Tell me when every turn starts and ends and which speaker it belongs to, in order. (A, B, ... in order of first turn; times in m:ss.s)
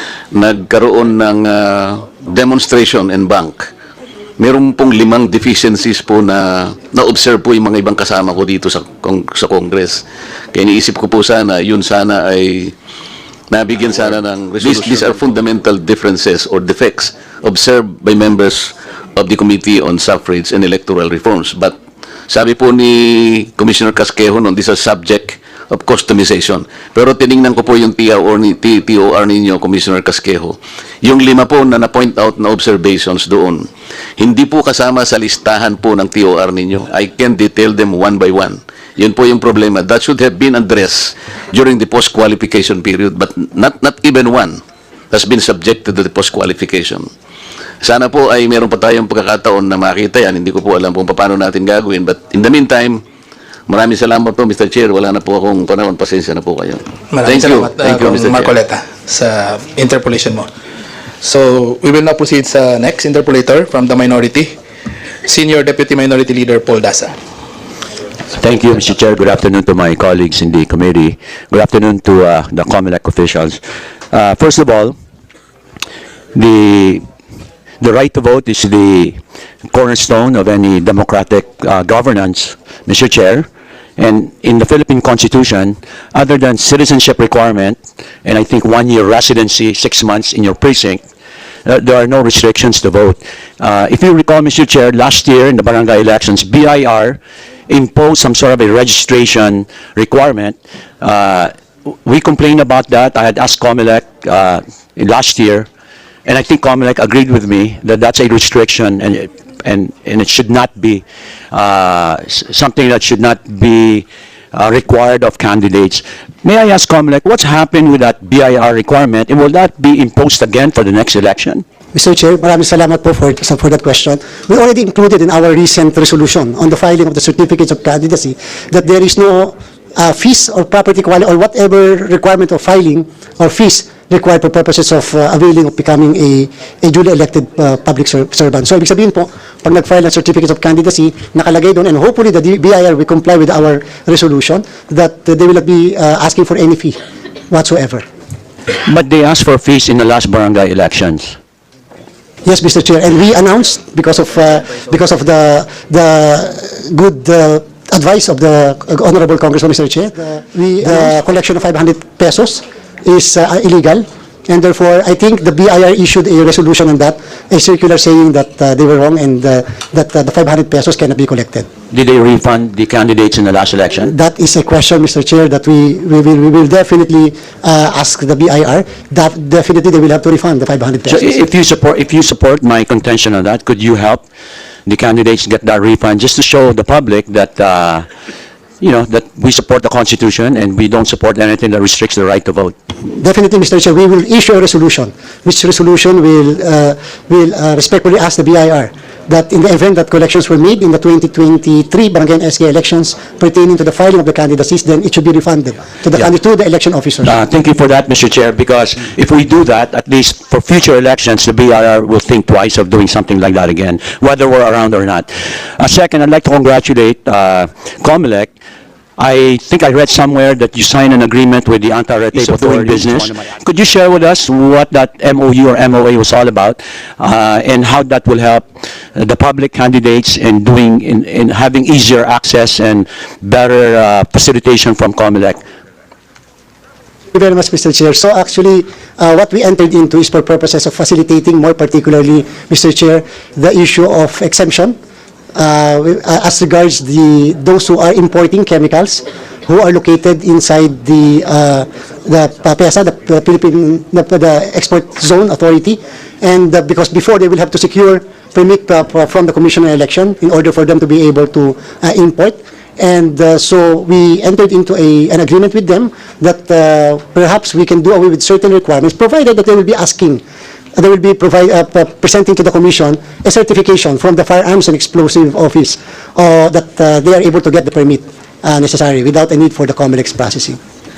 0:00.3-0:03.7 A
0:04.4-0:10.0 A
0:10.5-0:12.8 A
0:13.5-0:21.8 A
0:22.3-0:33.7 A
0:34.2-0:44.6 A
0:45.1-0:47.1 A
0:47.8-0:53.0 A
0:53.7-0:58.5 A
0:57.1-1:00.5 B
1:01.2-1:04.5 B
1:05.2-1:07.1 B
1:08.4-1:13.6 C
1:14.1-1:15.0 C
1:16.3-1:17.0 C
1:17.8-1:19.2 C
1:19.7-1:23.5 C
1:24.0-1:31.0 C
1:31.6-1:41.5 C
1:42.0-1:45.7 C
1:46.2-2:01.6 C
2:01.9-2:27.0 D
2:27.5-2:28.0 D
2:28.8-2:31.4 C
2:32.4-2:51.7 D
2:51.9-2:54.1 C
2:54.0-3:01.4 D
3:01.1-3:04.2 C
3:04.9-3:08.0 C
3:08.8-3:12.8 C
3:13.1-3:27.4 D
3:27.2-3:38.5 C
3:39.2-3:55.6 C
3:57.3-4:05.0 D
4:05.5-4:30.4 D
4:31.0-4:40.8 D